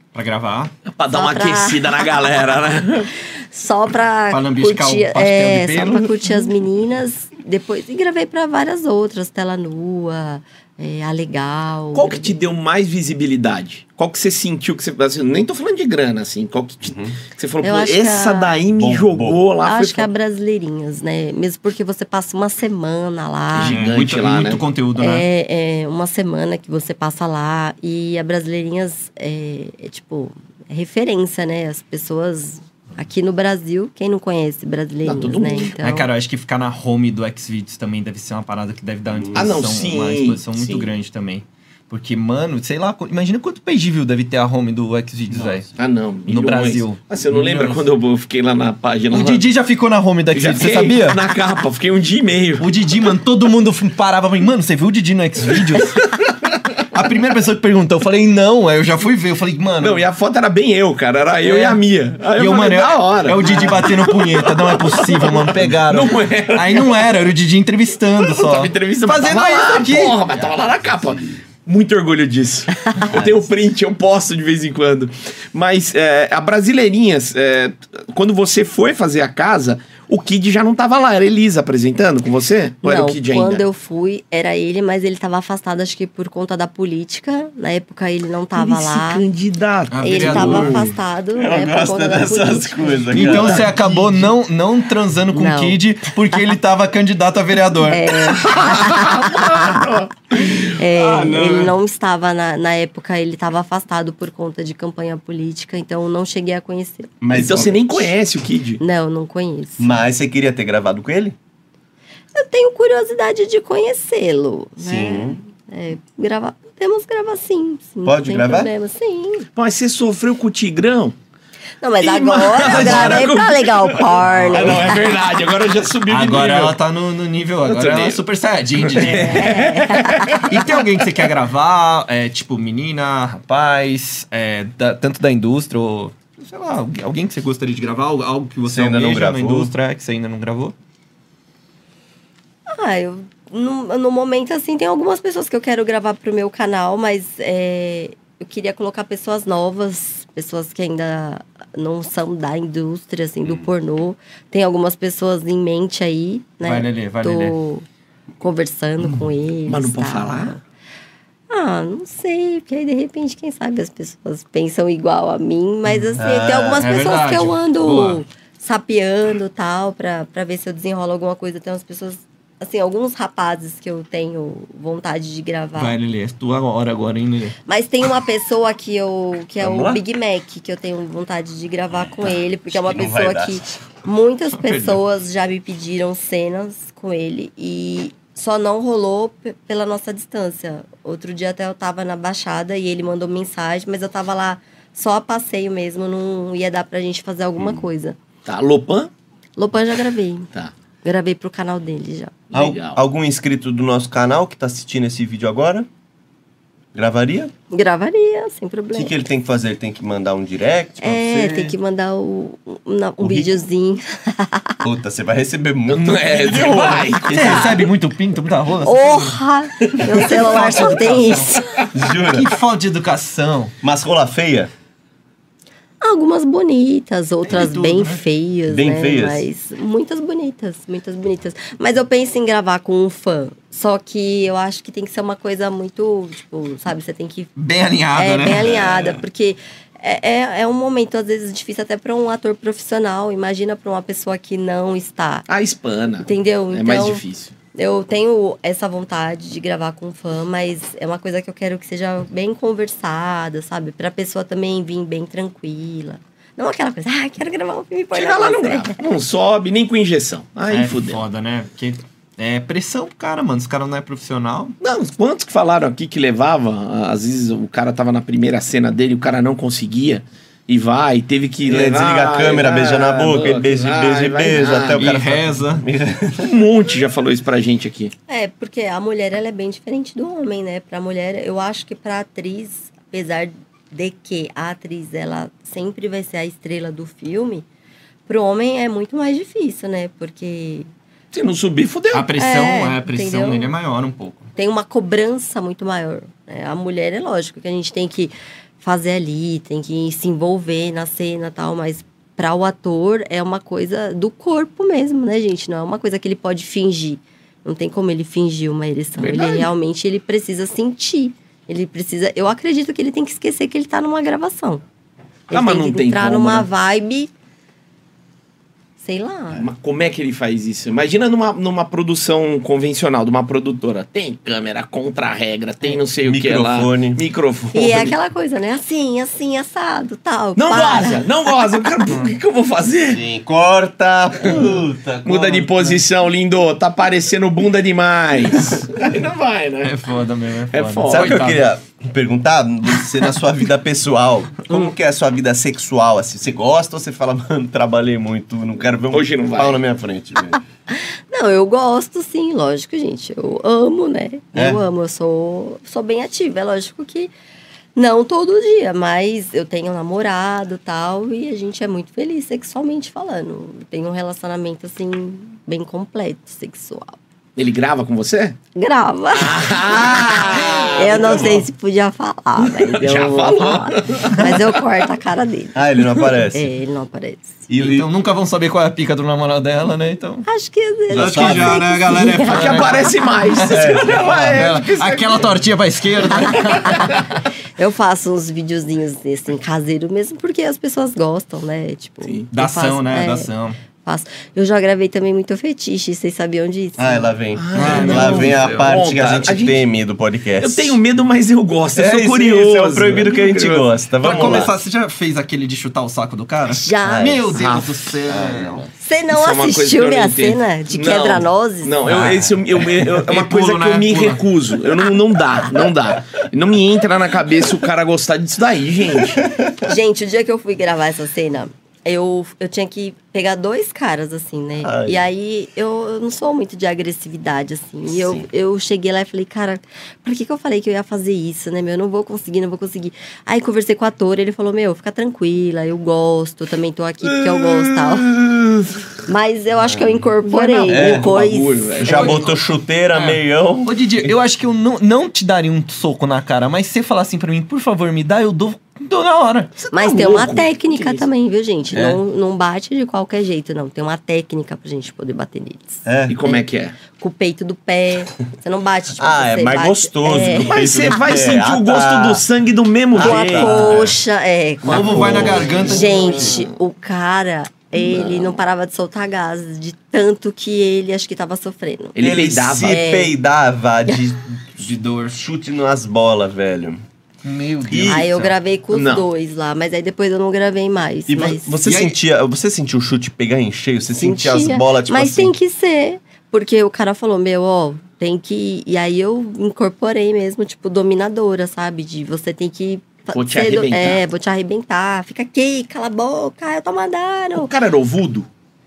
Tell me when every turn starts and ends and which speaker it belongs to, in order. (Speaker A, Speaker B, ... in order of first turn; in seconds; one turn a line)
Speaker A: 0.1-0.7
Speaker B: 0.9-3.1
Speaker C: 1.1-2.0
Speaker C: 3.4-12.3
Speaker A: 4.3-6.4
Speaker B: 11.9-20.1
Speaker D: 16.9-17.2
Speaker C: 17.6-18.6
Speaker D: 18.7-19.4
Speaker C: 19.6-23.8
Speaker B: 23.6-24.6
Speaker A: 23.6-25.2
Speaker C: 25.0-36.1
Speaker B: 35.0-35.8
Speaker A: 35.8-45.7
Speaker D: 39.2-39.5
Speaker B: 39.3-40.9
Speaker B: 45.8-49.5
Speaker A: 46.3-47.9
Speaker A: 49.1-51.2
Speaker B: 50.3-52.7
Speaker A: 52.6-56.2
Speaker B: 56.0-56.5
Speaker A: 56.8-60.0
Speaker B: 59.8-67.1
Speaker A: 61.4-61.8
Speaker A: 62.4-70.2
Speaker B: 68.2-83.7
Speaker D: 73.0-73.5
Speaker C: 82.8-89.2
Speaker B: 88.6-90.9
Speaker A: 89.9-90.9
Speaker C: 90.0-93.4
Speaker D: 91.4-94.3
Speaker A: 93.1-98.5
Speaker C: 95.3-95.8
Speaker C: 97.9-108.0
Speaker B: 98.5-100.1
Speaker D: 100.9-101.8
Speaker D: 107.2-108.0
Speaker B: 107.3-108.8
Speaker C: 108.8-109.9
Speaker D: 109.8-111.4
Speaker C: 112.3-119.5
Speaker D: 114.8-115.4
Speaker D: 118.0-118.7
Speaker B: 119.5-121.2
Speaker C: 121.8-125.1
Speaker B: 122.0-126.8
Speaker A: 122.6-123.3
Speaker A: 124.2-125.0
Speaker A: 126.1-129.6
Speaker B: 127.7-128.2
Speaker B: 128.8-130.9
Speaker C: 129.3-130.4
Speaker A: 130.4-140.7
Speaker D: 138.7-139.7
Speaker C: 142.7-157.8
Speaker A: 156.6-157.5
Speaker C: 158.4-160.6
Speaker B: 159.7-160.6
Speaker C: 161.5-175.9
Speaker A: 165.9-166.2
Speaker D: 166.2-166.9
Speaker A: 166.8-168.2
Speaker A: 175.8-177.6
Speaker C: 177.7-198.2
Speaker D: 179.6-180.0
Speaker D: 182.2-183.7
Speaker A: 184.6-185.0
Speaker B: 198.5-199.1
Speaker C: 199.6-200.5
Speaker C: 201.0-202.4
Speaker B: 202.5-203.0
Speaker D: 202.5-205.9
Speaker D: 206.9-207.5
Speaker C: 207.7-209.2
Speaker D: 208.9-211.7
Speaker C: 211.0-214.8
Speaker D: 213.2-213.6
Speaker D: 214.8-217.2
Speaker B: 215.9-217.9
Speaker A: 217.3-219.4
Speaker C: 218.8-221.9
Speaker A: 220.0-221.6
Speaker D: 221.9-222.6
Speaker A: 222.1-223.7
Speaker D: 223.8-224.7
Speaker C: 226.0-237.5
Speaker A: 227.5-228.2
Speaker D: 228.7-229.4
Speaker A: 237.6-239.2
Speaker C: 238.1-245.5
Speaker B: 245.5-247.5
Speaker C: 246.2-259.0
Speaker B: 258.1-261.2
Speaker A: 260.7-264.8
Speaker B: 264.8-275.1
Speaker D: 271.6-276.5
Speaker A: 275.0-275.9
Speaker B: 276.4-278.1
Speaker C: 278.3-287.6
Speaker C: 288.3-290.9
Speaker B: 291.3-292.3
Speaker A: 292.1-294.5
Speaker C: 292.4-293.7
Speaker C: 294.6-314.8
Speaker B: 309.2-309.7
Speaker C: 315.5-317.3
Speaker B: 315.5-316.7
Speaker C: 319.0-319.6
Speaker B: 319.5-328.1
Speaker D: 326.2-327.2
Speaker C: 327.7-331.2
Speaker B: 330.6-333.2
Speaker D: 333.1-336.0
Speaker B: 335.2-340.0
Speaker A: 339.8-341.7
Speaker B: 340.7-341.4
Speaker D: 341.1-350.6
Speaker B: 349.1-349.8
Speaker C: 350.9-357.3
Speaker D: 354.5-354.8
Speaker C: 358.0-367.2
Speaker B: 367.6-368.6
Speaker C: 368.8-375.8
Speaker B: 369.4-371.6
Speaker D: 371.3-371.6
Speaker B: 372.6-374.8
Speaker D: 375.8-376.7
Speaker C: 376.5-377.6
Speaker D: 377.7-378.1
Speaker A: 377.8-380.5
Speaker C: 380.5-383.1
Speaker D: 381.1-381.9
Speaker A: 381.1-387.2
Speaker B: 382.4-385.5
Speaker D: 383.7-384.7
Speaker C: 386.4-387.2
Speaker C: 387.8-393.5
Speaker A: 392.5-393.8
Speaker C: 394.1-397.3
Speaker D: 397.0-401.0
Speaker B: 397.6-399.9
Speaker A: 397.8-399.5
Speaker B: 400.6-404.7
Speaker D: 401.9-404.7
Speaker A: 404.2-408.8
Speaker C: 406.7-407.5
Speaker D: 407.1-407.5
Speaker B: 407.5-407.9
Speaker D: 408.3-408.9
Speaker C: 409.0-412.0
Speaker B: 409.3-419.4
Speaker A: 412.0-414.4
Speaker D: 419.4-419.7
Speaker C: 419.8-438.4
Speaker D: 424.8-425.2
Speaker D: 428.2-428.5
Speaker B: 437.5-438.6
Speaker C: 439.3-442.4
Speaker D: 439.8-440.2
Speaker B: 440.6-442.4
Speaker D: 440.9-441.3
Speaker D: 442.0-444.3
Speaker A: 442.1-442.5
Speaker A: 443.1-449.7
Speaker B: 449.8-451.3
Speaker C: 449.9-461.2
Speaker D: 456.1-456.4
Speaker B: 456.3-457.0
Speaker D: 459.1-462.4
Speaker B: 460.5-463.9
Speaker D: 463.1-464.1
Speaker C: 463.2-472.2
Speaker A: 463.9-464.1
Speaker D: 464.9-466.3
Speaker A: 464.9-466.6
Speaker B: 465.2-466.7
Speaker B: 467.9-468.6
Speaker B: 472.2-473.0
Speaker D: 472.2-477.0
Speaker C: 472.8-473.4
Speaker A: 474.7-475.4
Speaker A: 477.4-478.5
Speaker D: 477.9-478.5
Speaker C: 478.1-481.8
Speaker B: 478.9-479.3
Speaker D: 481.3-485.5
Speaker A: 481.9-482.2
Speaker C: 484.2-497.7
Speaker B: 493.3-494.2
Speaker B: 497.6-498.5